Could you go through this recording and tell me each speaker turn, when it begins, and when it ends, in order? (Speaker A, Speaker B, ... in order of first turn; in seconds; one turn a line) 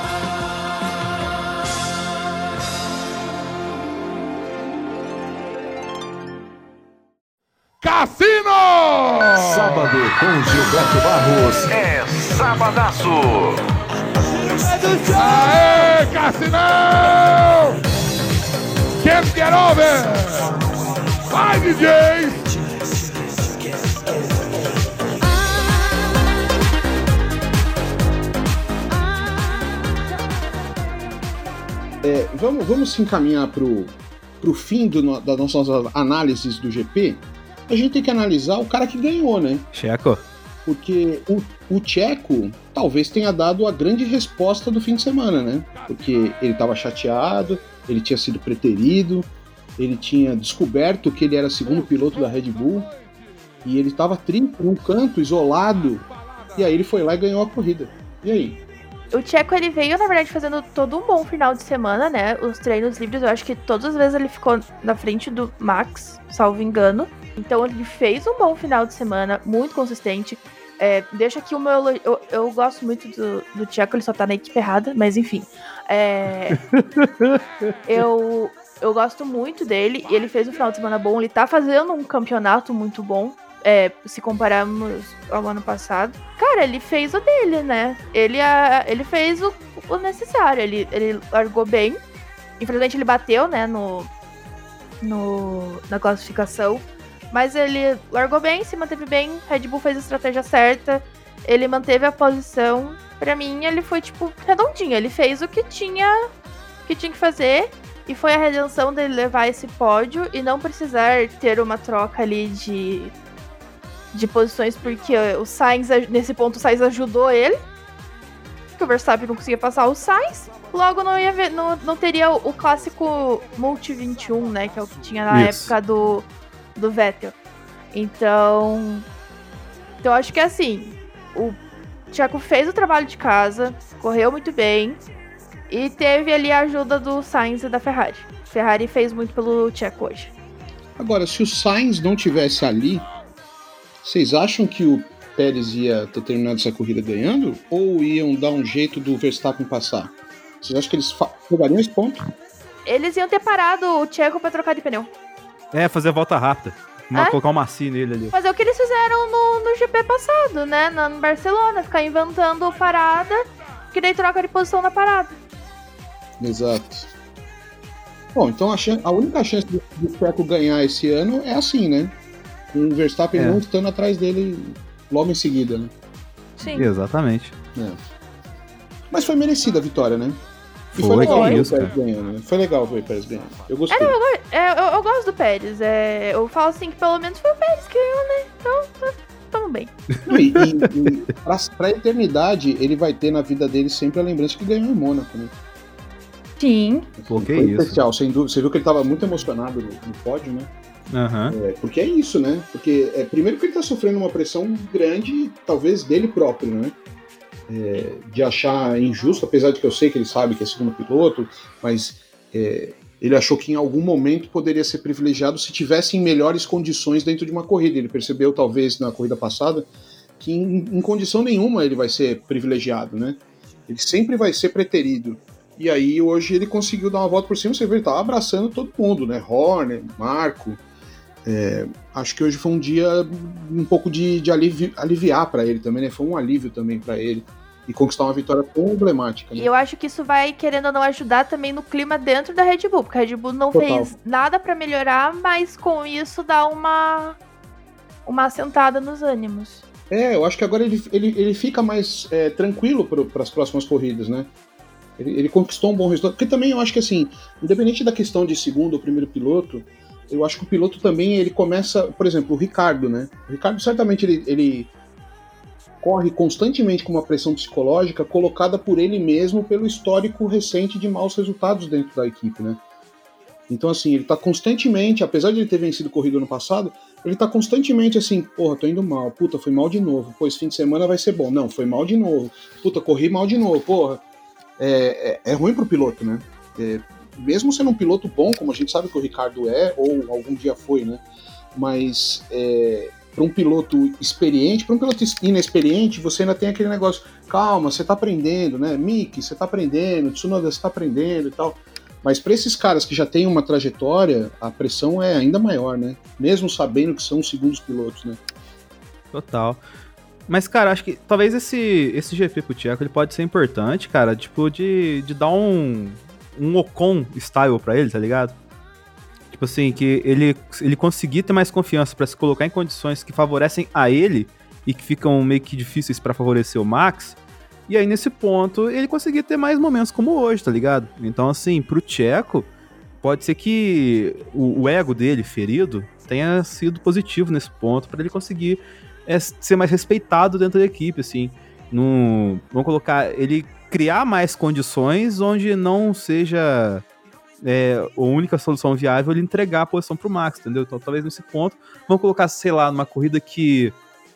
Speaker A: 7.8-9.9
Speaker B: 9.4-13.6
Speaker B: 14.3-14.9
Speaker A: 15.1-17.8
Speaker A: 19.0-20.6
Speaker A: 21.3-22.4
Speaker C: 32.0-39.7
Speaker D: 39.7-40.2
Speaker C: 40.6-52.9
Speaker C: 53.6-58.6
Speaker E: 59.1-76.6
Speaker D: 76.5-77.4
Speaker E: 77.9-92.0
Speaker E: 92.6-94.1
Speaker E: 95.0-106.3
Speaker E: 106.8-113.1
Speaker E: 114.1-117.6
Speaker E: 118.8-127.3
Speaker D: 125.3-125.7
Speaker E: 127.9-129.0
Speaker E: 130.0-131.6
Speaker E: 132.1-135.0
Speaker E: 135.7-140.3
Speaker C: 141.0-143.1
Speaker C: 144.0-152.3
Speaker E: 152.8-155.1
Speaker D: 155.7-158.3
Speaker E: 158.3-165.3
Speaker C: 166.4-167.1
Speaker C: 168.3-172.2
Speaker C: 172.7-175.9
Speaker D: 173.3-173.6
Speaker E: 176.6-176.9
Speaker D: 176.7-177.5
Speaker C: 179.1-180.4
Speaker C: 180.9-184.2
Speaker D: 181.0-181.9
Speaker E: 181.2-181.6
Speaker E: 183.9-189.9
Speaker C: 190.2-195.5
Speaker E: 196.6-197.1
Speaker C: 197.2-200.7
Speaker D: 197.3-198.0
Speaker D: 201.1-201.6
Speaker C: 201.5-206.9
Speaker C: 207.7-219.9
Speaker C: 220.4-230.8
Speaker C: 231.4-239.7
Speaker E: 239.6-247.4
Speaker C: 243.7-244.1
Speaker E: 248.2-249.8
Speaker C: 250.1-254.5
Speaker C: 255.2-264.9
Speaker C: 266.0-272.8
Speaker C: 273.7-284.2
Speaker C: 284.8-291.2
Speaker C: 291.7-308.4
Speaker D: 309.3-309.8
Speaker D: 310.5-318.5
Speaker D: 319.5-327.4
Speaker D: 327.9-332.7
Speaker D: 333.2-347.0
Speaker D: 347.6-353.9